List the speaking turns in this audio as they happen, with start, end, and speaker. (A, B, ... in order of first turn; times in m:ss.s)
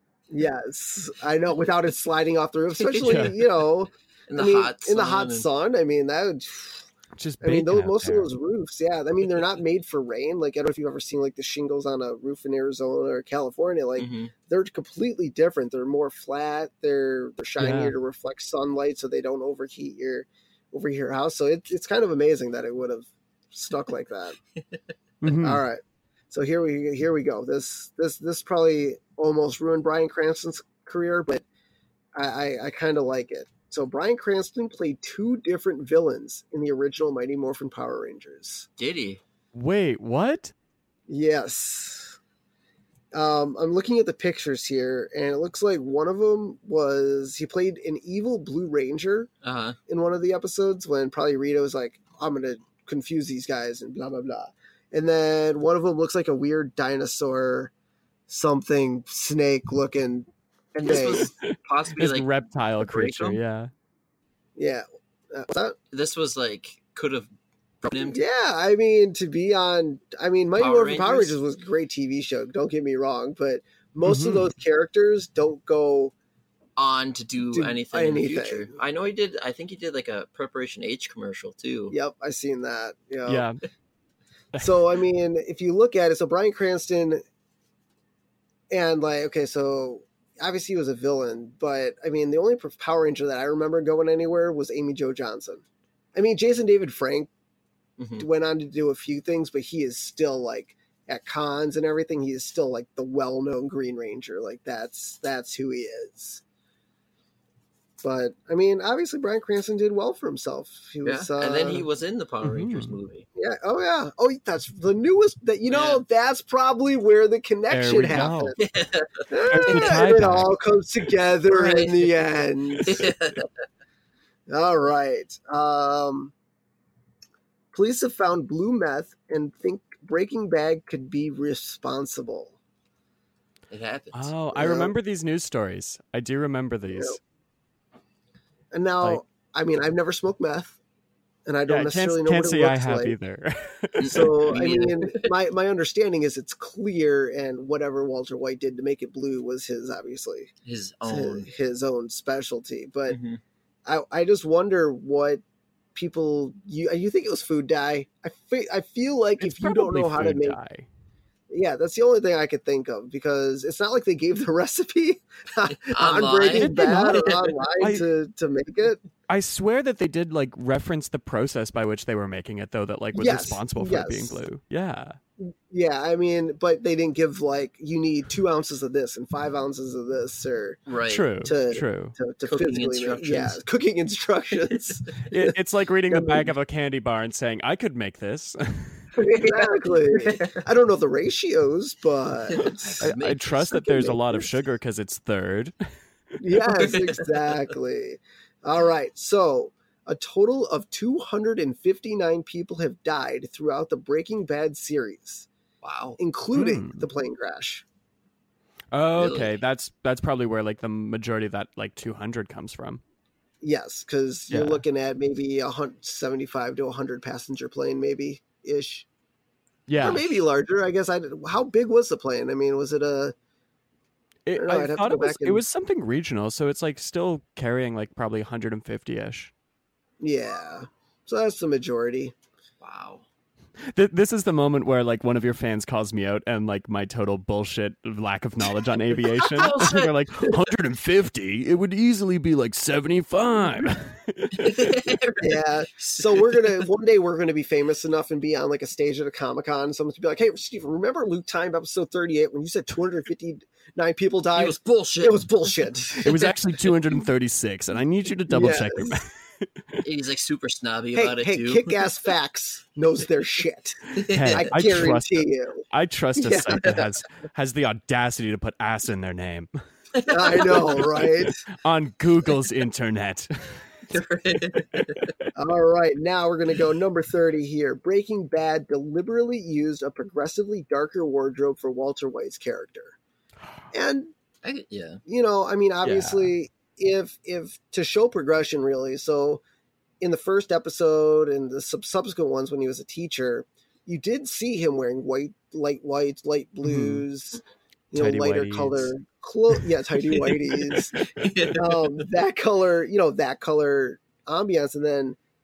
0:00.3-0:06.9 A
0:02.8-0:03.4 B
0:03.0-0:03.3 C
0:04.3-0:05.5 B
0:07.2-0:08.3 C
0:07.4-0:24.4 A
0:14.0-0:14.3 B
0:17.6-0:17.9 C
0:25.2-0:25.6 C
0:25.4-0:31.4 A
0:32.2-0:38.7 A
0:38.8-0:39.2 B
0:39.5-0:40.5 C
0:41.1-0:42.2 A
0:43.1-0:49.3 A
0:49.4-0:49.8 B
0:49.9-0:57.7 A
0:58.3-1:01.3 A
1:00.8-1:02.3 B
1:01.5-1:03.7 C
1:02.8-1:03.4 B
1:04.6-1:05.8 A
1:05.9-1:07.3 B
1:07.8-1:08.2 B
1:08.0-1:16.1 A
1:10.6-1:11.4 B
1:14.0-1:14.5 C
1:16.8-1:22.0 B
1:17.5-1:18.7 A
1:21.9-1:23.5 A
1:23.3-1:23.6 C
1:24.5-1:24.9 C
1:24.6-1:27.2 A
1:28.7-1:35.6 A
1:36.2-1:37.3 A
1:38.0-1:38.2 B
1:38.2-1:46.4 A
1:48.0-1:51.9 A
1:51.0-1:53.3 B
1:52.4-1:52.9 C
1:53.4-1:58.6 A
1:55.7-1:56.0 B
1:57.7-1:58.6 C
1:58.6-1:59.1 B
1:59.3-2:03.1 A
1:59.5-2:00.5 C
1:59.7-1:59.9 B
2:01.5-2:02.3 B
2:02.8-2:03.4 B
2:04.5-2:06.3 A
2:07.7-2:12.6 A
2:13.7-2:14.3 B
2:14.1-2:17.2 C
2:14.5-2:14.9 A
2:16.9-2:17.2 A
2:18.7-2:20.8 A
2:21.5-2:23.2 A
2:21.7-2:24.5 C
2:24.0-2:25.3 B
2:24.0-2:30.5 A
2:30.6-2:31.5 B
2:31.0-2:33.2 A
2:33.1-2:33.4 B
2:33.9-2:35.4 A
2:36.0-2:40.6 A
2:39.4-2:40.9 C
2:41.5-2:49.0 A
2:45.9-2:47.6 B
2:46.5-2:48.0 C
2:49.3-2:55.2 C
2:53.2-2:54.4 A
2:55.4-3:00.8 A
3:00.9-3:01.2 B
3:01.1-3:02.1 C
3:01.4-3:05.5 A
3:02.5-3:03.6 B
3:05.3-3:09.0 C
3:06.1-3:06.5 A
3:09.2-3:14.5 A
3:09.2-3:10.6 B
3:12.6-3:13.8 B
3:13.0-3:15.7 C
3:16.4-3:25.5 A
3:16.7-3:17.7 B
3:25.8-3:26.2 B
3:26.2-3:27.8 A
3:26.6-3:27.0 C
3:28.9-3:33.0 C
3:29.2-3:29.5 B
3:33.6-3:39.1 A
3:34.5-3:34.8 C
3:39.9-3:40.2 C
3:40.0-3:43.4 A
3:44.5-3:49.5 C
3:44.6-3:45.6 A
3:50.2-3:52.3 A
3:52.8-3:53.2 B
3:53.8-4:04.9 C
3:59.3-4:00.1 B
4:04.6-4:06.7 B
4:05.4-4:16.3 A
4:14.6-4:15.7 B
4:16.2-4:20.0 C
4:16.2-4:16.6 B
4:18.5-4:19.2 A
4:20.0-4:22.3 B
4:21.2-4:27.0 A
4:24.2-4:24.7 B
4:24.3-4:29.7 C
4:30.2-4:31.0 B
4:30.3-4:31.6 A
4:31.8-4:33.9 C
4:34.1-4:35.3 B
4:34.9-4:35.4 C
4:35.6-4:43.2 A
4:43.9-4:44.3 A
4:44.6-4:45.2 B
4:45.3-4:49.6 A
4:46.0-4:46.5 C
4:50.2-4:57.6 A
4:56.8-4:57.3 C
4:58.1-5:01.2 A
4:58.2-4:59.1 C
5:01.2-5:02.1 B
5:01.8-5:05.4 A